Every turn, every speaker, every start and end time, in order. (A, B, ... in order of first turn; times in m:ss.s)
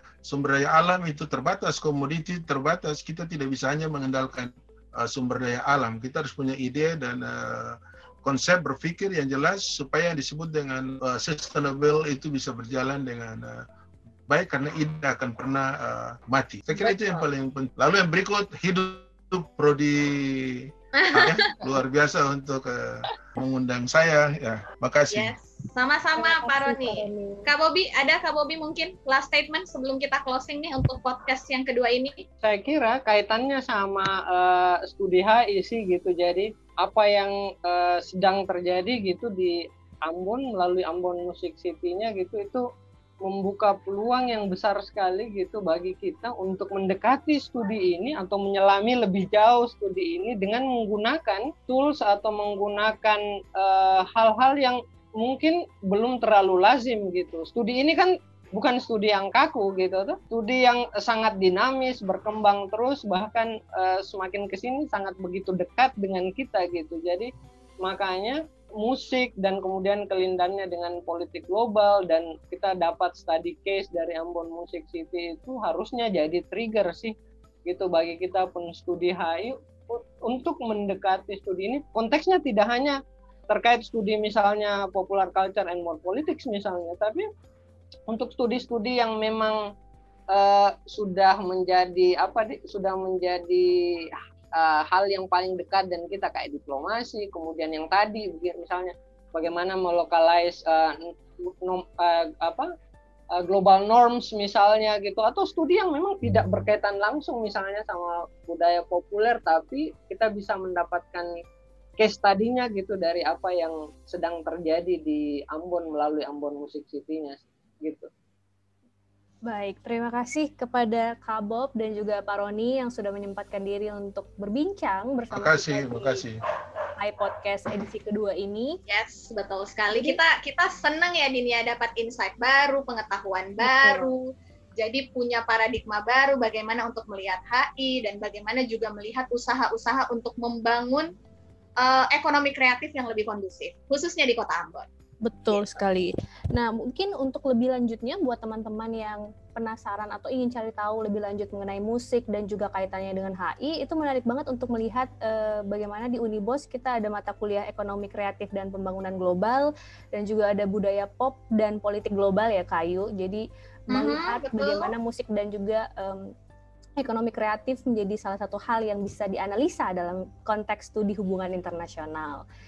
0:00.2-0:13.6 A
0:14.3-0:25.3 A
0:16.8-0:17.2 B
0:21.0-0:21.5 C
0:25.1-0:32.2 C
0:26.2-0:27.5 D
0:32.4-0:42.6 B
0:43.2-1:07.3 B
1:07.8-1:17.1 B
1:17.7-1:23.0 B
1:23.5-1:27.3 B
1:28.1-1:29.6 B
1:30.3-1:42.7 B
1:43.4-1:51.3 B
1:52.0-1:58.1 B
1:59.5-2:06.2 D
2:05.3-2:06.4 A
2:07.0-2:08.8 D
2:08.9-2:21.1 C
2:09.9-2:10.2 D
2:13.6-2:14.1 D
2:21.8-2:24.9 C
2:25.2-2:46.3 D
2:25.5-2:25.8 C
2:43.9-2:44.9 C
2:47.0-2:52.4 D